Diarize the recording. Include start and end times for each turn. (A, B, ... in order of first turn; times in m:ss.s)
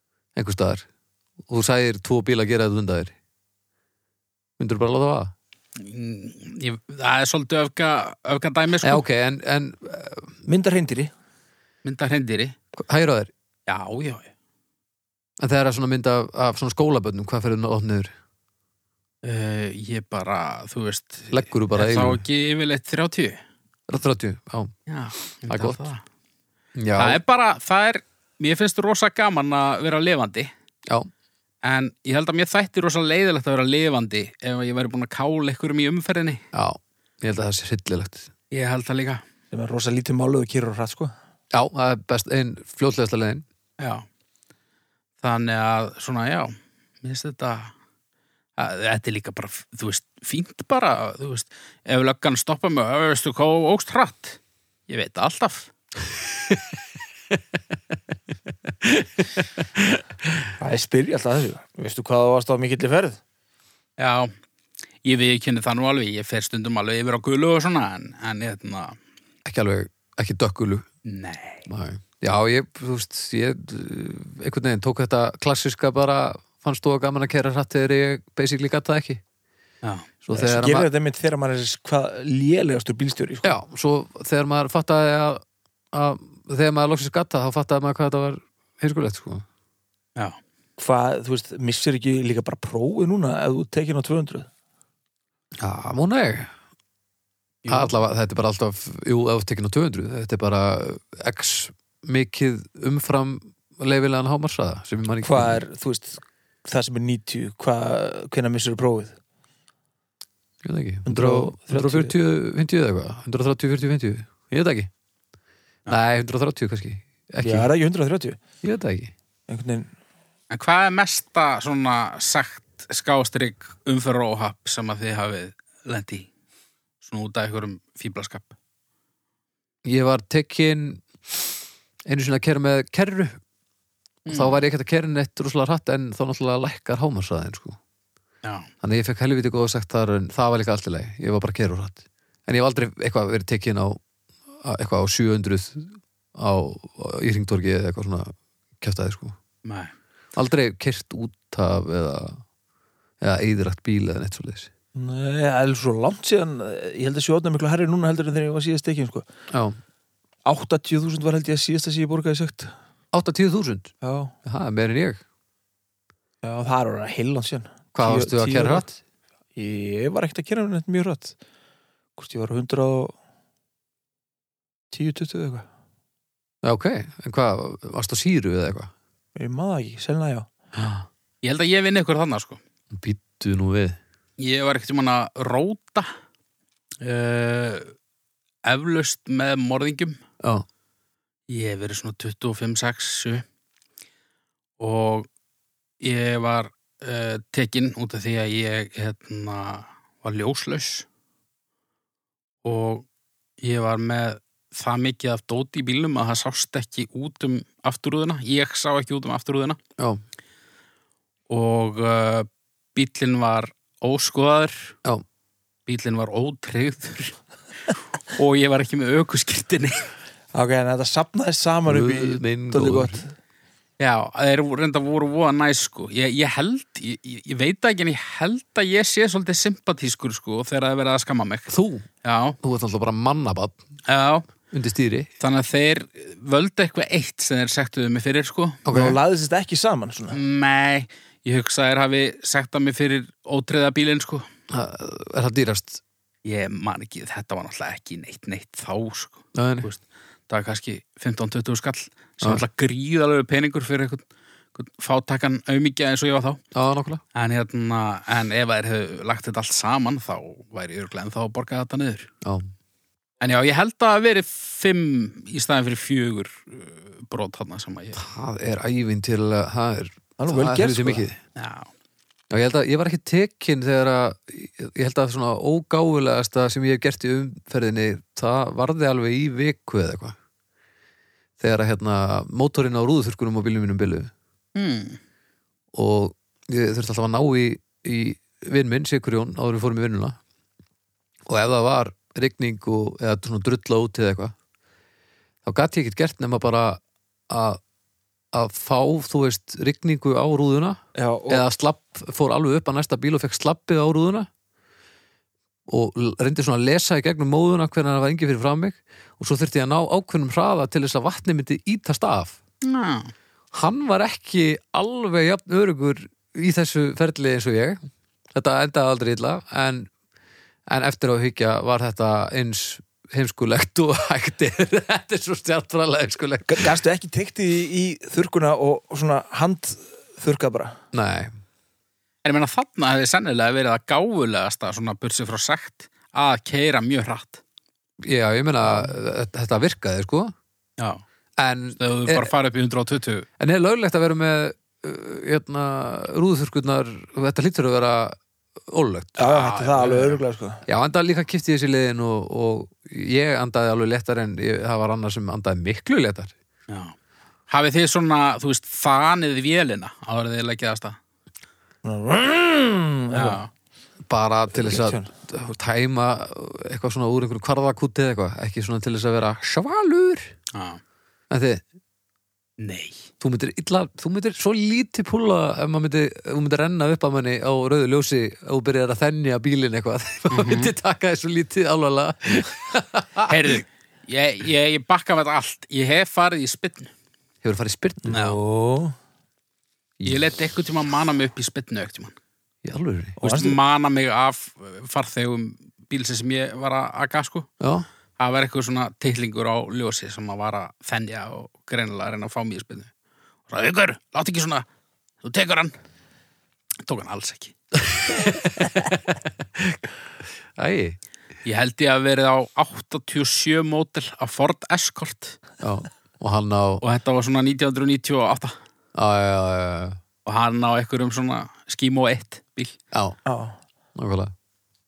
0:00.4-0:00.8 A
0:01.5-0:03.1 A
0:04.6-0:05.3 A
0:05.8-0:09.0 B
0:08.8-0:10.3 A
0:10.5-0:11.1 C
0:11.8-0:12.6 B
0:12.8-0:13.3 A
0:13.7-0:14.3 B
0:15.4-0:18.1 A
0:19.2-0:23.4 B
0:21.3-0:22.2 A
0:23.9-0:24.7 A
0:24.9-0:26.0 B
0:25.5-0:25.8 A
0:26.8-0:27.2 A
0:27.0-0:30.5 B
0:31.6-0:36.4 B
0:36.5-0:38.3 A
0:38.5-0:39.2 B
0:39.5-0:41.1 C
0:41.5-0:43.4 A
0:43.8-0:44.0 B
0:45.2-0:47.7 B
0:48.6-0:55.7 B
0:58.8-1:00.0 A
1:00.6-1:03.2 C
1:04.0-1:04.3 B
1:05.0-1:09.0 B
1:09.4-1:10.9 A
1:11.0-1:11.7 B
1:11.7-1:19.2 A
1:19.8-1:20.1 B
1:20.2-1:20.9 A
1:20.3-1:23.6 C
1:23.4-1:29.4 A
1:30.8-1:34.5 C
1:35.6-1:36.5 A
1:37.6-1:37.9 B
1:37.7-1:45.6 A
1:45.2-1:49.2 C
1:50.6-1:54.9 A
1:51.1-1:52.2 C
1:55.9-1:57.7 A
1:57.4-1:58.4 C
1:58.6-1:59.1 A
1:59.5-1:59.9 C
2:00.5-2:06.3 B
2:07.0-2:08.5 B
2:09.8-2:11.5 A
2:12.1-2:13.4 A
2:14.3-2:14.6 B
2:14.3-2:17.8 A
2:18.4-2:18.7 B
2:18.8-2:24.0 A
2:24.6-2:29.4 A
2:29.6-2:29.9 B
2:30.4-2:32.4 A
2:33.2-2:34.7 A
2:35.0-2:39.3 C
2:39.5-2:39.8 A
2:40.4-2:42.7 C
2:43.1-2:43.9 A
2:44.0-2:44.3 C
2:44.4-2:45.2 A
2:46.4-2:48.9 C
2:47.9-2:48.9 A
2:49.6-2:51.4 C
2:52.2-2:53.2 C
2:54.9-2:55.7 C
2:56.6-2:58.9 A
2:59.4-3:00.5 C
3:00.8-3:02.6 B
3:02.9-3:04.0 A
3:04.4-3:06.1 B
3:07.0-3:07.9 B
3:08.6-3:10.2 B
3:11.5-3:13.4 B
3:14.8-3:15.3 B
3:16.0-3:21.1 B
3:22.6-3:23.1 B
3:23.6-3:29.8 B
3:31.5-3:34.9 B
3:35.9-3:37.4 B
3:37.9-3:40.1 B
3:40.5-3:43.3 C
3:41.9-3:43.2 A
3:44.0-3:51.7 B
3:51.7-3:52.1 A
3:52.2-3:52.6 B
3:52.6-3:53.8 A
3:54.1-3:54.5 B
3:54.7-3:55.3 A
3:55.4-3:58.8 B
3:58.8-3:59.2 A
3:58.9-4:00.4 C
4:00.3-4:04.5 B
4:04.7-4:06.0 A
4:06.4-4:14.2 B
4:09.6-4:09.9 A
4:14.8-4:16.6 B
4:16.8-4:17.2 A
4:17.3-4:22.3 B
4:22.4-4:22.7 A
4:23.4-4:28.2 B
4:28.2-4:31.4 A
4:30.4-4:31.3 C
4:31.6-4:31.9 B
4:32.5-4:40.4 A
4:41.6-4:44.3 A
4:44.8-4:45.2 B
4:45.9-4:50.4 A
4:51.5-4:54.5 A
4:55.6-4:57.8 A
4:58.5-5:04.5 A
5:01.2-5:01.6 C
5:05.9-5:12.6 A
5:12.8-5:13.3 B
5:13.7-5:18.0 A
5:18.5-5:20.1 A
5:20.9-5:26.9 A
5:26.7-5:31.0 C
5:31.1-5:31.5 A
5:32.4-5:37.6 B
5:38.2-5:40.5 A
5:41.0-5:41.2 B
5:41.6-5:42.5 A
5:42.0-5:43.5 B
5:43.6-5:49.5 A
5:49.4-5:50.8 C
5:49.4-5:50.4 B
5:50.9-5:56.5 A
5:56.9-5:57.2 B
5:57.7-6:01.2 B
6:02.0-6:03.6 C
6:03.3-6:03.7 B
6:04.3-6:10.5 A
6:04.7-6:05.3 C
6:10.7-6:11.0 B
6:11.5-6:11.8 A
6:12.8-6:13.3 B
6:13.4-6:23.8 A
6:20.5-6:20.9 B
6:23.5-6:27.1 B
6:27.6-6:28.4 A
6:28.2-6:29.2 C
6:30.2-6:32.4 B
6:32.8-6:33.4 A
6:33.4-6:33.8 C
6:33.4-6:37.7 B
6:37.8-6:38.1 A
6:38.4-6:43.1 B
6:43.7-6:44.9 B
6:45.4-6:45.9 B
6:47.0-6:47.8 B
6:48.3-6:50.0 A
6:50.8-6:51.2 A
6:51.6-6:55.6 B
6:55.8-6:57.0 A
6:57.0-6:58.8 B
6:59.2-7:00.2 A
7:00.4-7:03.0 B
7:03.1-7:03.4 A
7:03.5-7:03.8 C
7:04.2-7:04.5 A